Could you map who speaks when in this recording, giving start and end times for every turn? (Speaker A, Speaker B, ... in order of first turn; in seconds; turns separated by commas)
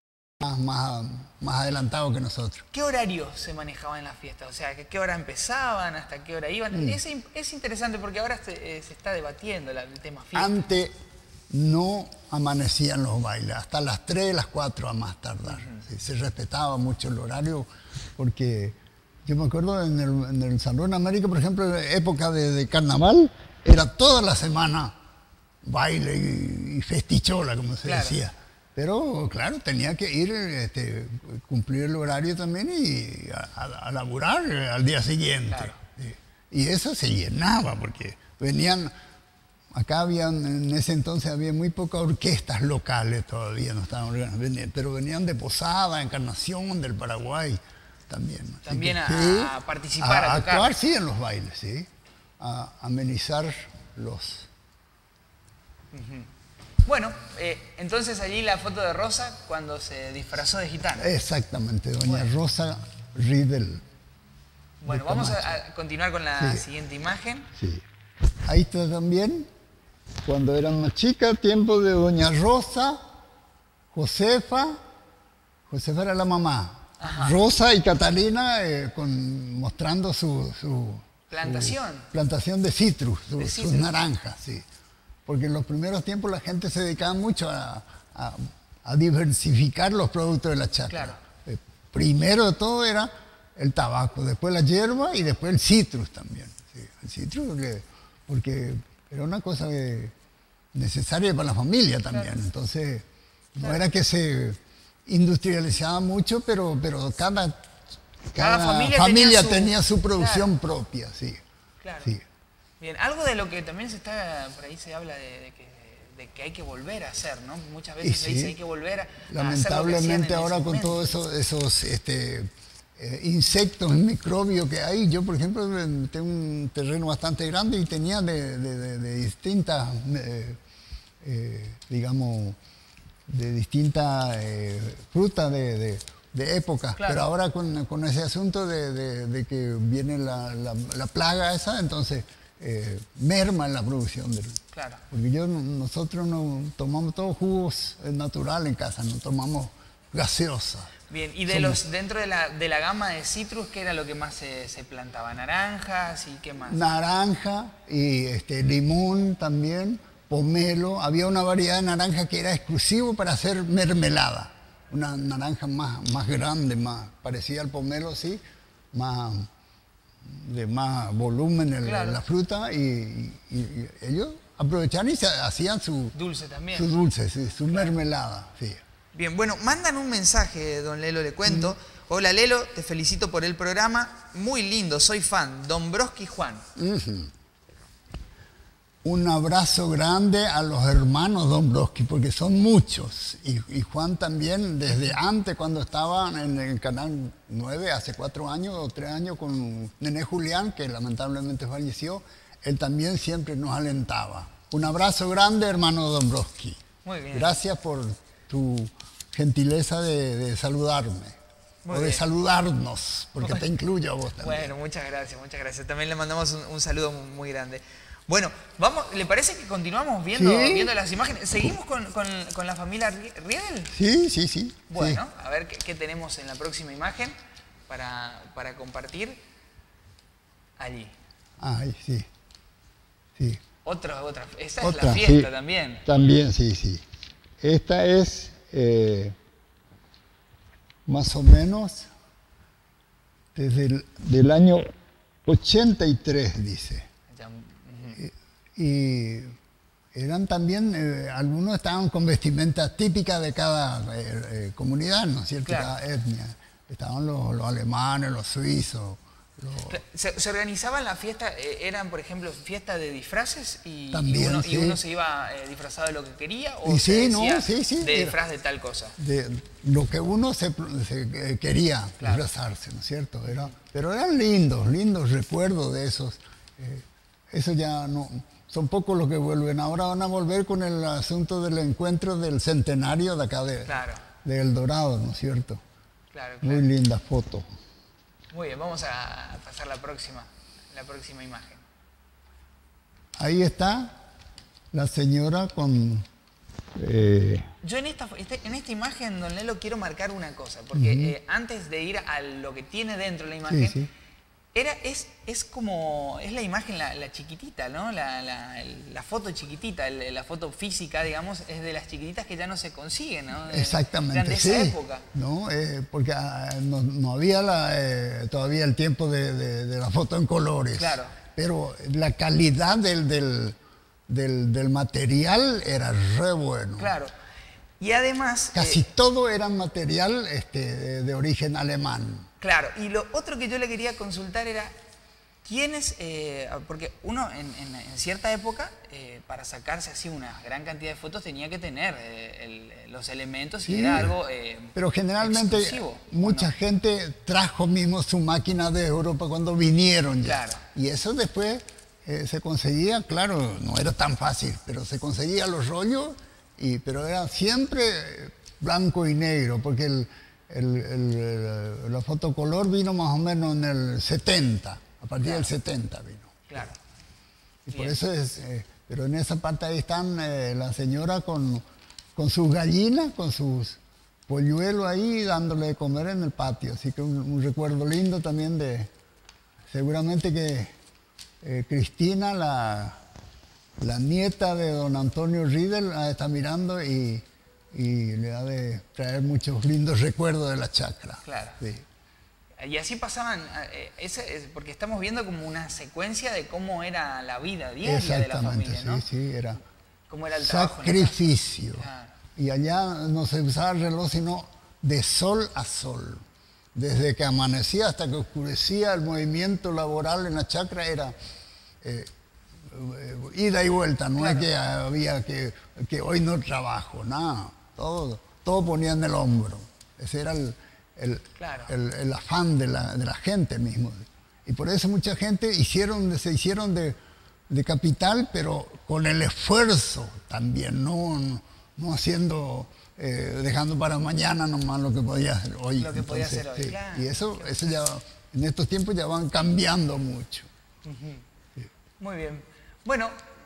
Speaker A: 0.4-2.6, Speaker B: 2.7-10.6, Speaker A: 6.7-7.0, Speaker A: 10.3-10.9, Speaker A: 11.5-24.9, Speaker B: 15.4-15.8, Speaker A: 25.6-38.9, Speaker B: 27.8-28.2, Speaker B: 35.5-35.7, Speaker A: 39.7-54.5, Speaker B: 48.6-50.8, Speaker B: 55.9-56.3, Speaker B: 56.8-61.1, Speaker A: 61.0-63.8, Speaker B: 62.0-62.3, Speaker B: 64.8-67.5, Speaker A: 64.9-65.6, Speaker A: 66.4-66.6, Speaker A: 67.6-67.8, Speaker A: 68.5-69.5, Speaker A: 70.2-73.0, Speaker A: 73.9-74.8, Speaker A: 75.7-84.6, Speaker B: 77.0-77.4, Speaker B: 81.3-82.1, Speaker B: 83.4-84.0, Speaker A: 85.2-100.1, Speaker B: 90.9-91.2, Speaker A: 100.7-107.6, Speaker B: 102.1-102.4, Speaker B: 103.6-103.8, Speaker A: 108.3-111.4, Speaker B: 108.3-110.5, Speaker B: 111.8-112.1, Speaker B: 112.8-121.1, Speaker A: 118.0-118.5, Speaker A: 119.3-130.6, Speaker A: 131.2-132.6, Speaker A: 133.3-150.9, Speaker B: 137.0-137.2, Speaker B: 144.7-145.0, Speaker B: 151.1-156.9, Speaker A: 151.5-151.8, Speaker A: 156.7-168.4, Speaker A: 168.9-169.5, Speaker A: 170.2-176.1, Speaker B: 171.8-172.2, Speaker B: 176.1-176.9, Speaker A: 176.7-178.8, Speaker B: 177.7-177.9, Speaker B: 179.1-186.7, Speaker A: 181.4-181.7, Speaker A: 186.7-187.3, Speaker A: 189.0-206.8, Speaker B: 207.0-207.6, Speaker A: 207.3-211.4, Speaker B: 211.8-212.2, Speaker A: 211.9-214.7, Speaker B: 213.4-213.7, Speaker B: 214.4-223.9, Speaker A: 220.3-220.9, Speaker A: 223.9-225.2, Speaker B: 224.9-227.3, Speaker B: 227.9-229.4, Speaker B: 230.8-231.1, Speaker A: 231.6-232.3, Speaker B: 233.8-236.0, Speaker A: 234.8-235.5, Speaker A: 236.0-237.0, Speaker A: 237.6-239.3, Speaker A: 241.1-242.1, Speaker A: 243.5-244.9, Speaker A: 245.4-247.1, Speaker B: 247.3-248.2, Speaker A: 248.2-249.5, Speaker A: 250.1-260.0, Speaker B: 255.7-255.9, Speaker B: 259.8-269.2, Speaker A: 264.1-265.0, Speaker A: 266.8-268.4, Speaker A: 269.2-285.8, Speaker B: 272.2-272.5, Speaker B: 273.5-273.7, Speaker B: 283.9-284.2, Speaker B: 286.3-286.9, Speaker A: 286.6-287.7, Speaker B: 288.5-291.8, Speaker A: 293.4-294.2, Speaker A: 294.9-296.2, Speaker A: 296.9-297.7, Speaker B: 297.8-304.0, Speaker A: 300.9-301.4, Speaker A: 303.7-304.1, Speaker B: 304.7-315.2, Speaker A: 313.6-323.8, Speaker B: 320.9-321.3, Speaker A: 324.3-327.1, Speaker B: 327.0-327.3, Speaker B: 328.0-329.0, Speaker A: 328.7-332.5, Speaker B: 332.6-334.9, Speaker B: 335.6-346.7, Speaker A: 343.8-344.4, Speaker A: 344.9-366.9, Speaker B: 350.4-350.8, Speaker B: 365.4-365.7, Speaker B: 366.7-366.9, Speaker A: 367.9-371.8, Speaker B: 367.9-368.2, Speaker A: 372.3-379.1, Speaker A: 379.9-380.9, Speaker A: 381.6-383.2, Speaker A: 384.0-392.0, Speaker B: 391.4-391.8, Speaker B: 392.8-399.2, Speaker A: 398.0-399.8, Speaker B: 400.3-402.4, Speaker A: 400.6-406.4, Speaker A: 406.9-411.3, Speaker A: 412.0-412.3, Speaker A: 412.8-427.2, Speaker B: 414.4-414.7, Speaker B: 421.6-421.9, Speaker A: 427.7-440.7, Speaker B: 436.0-437.8, Speaker B: 441.0-441.4, Speaker B: 442.2-443.4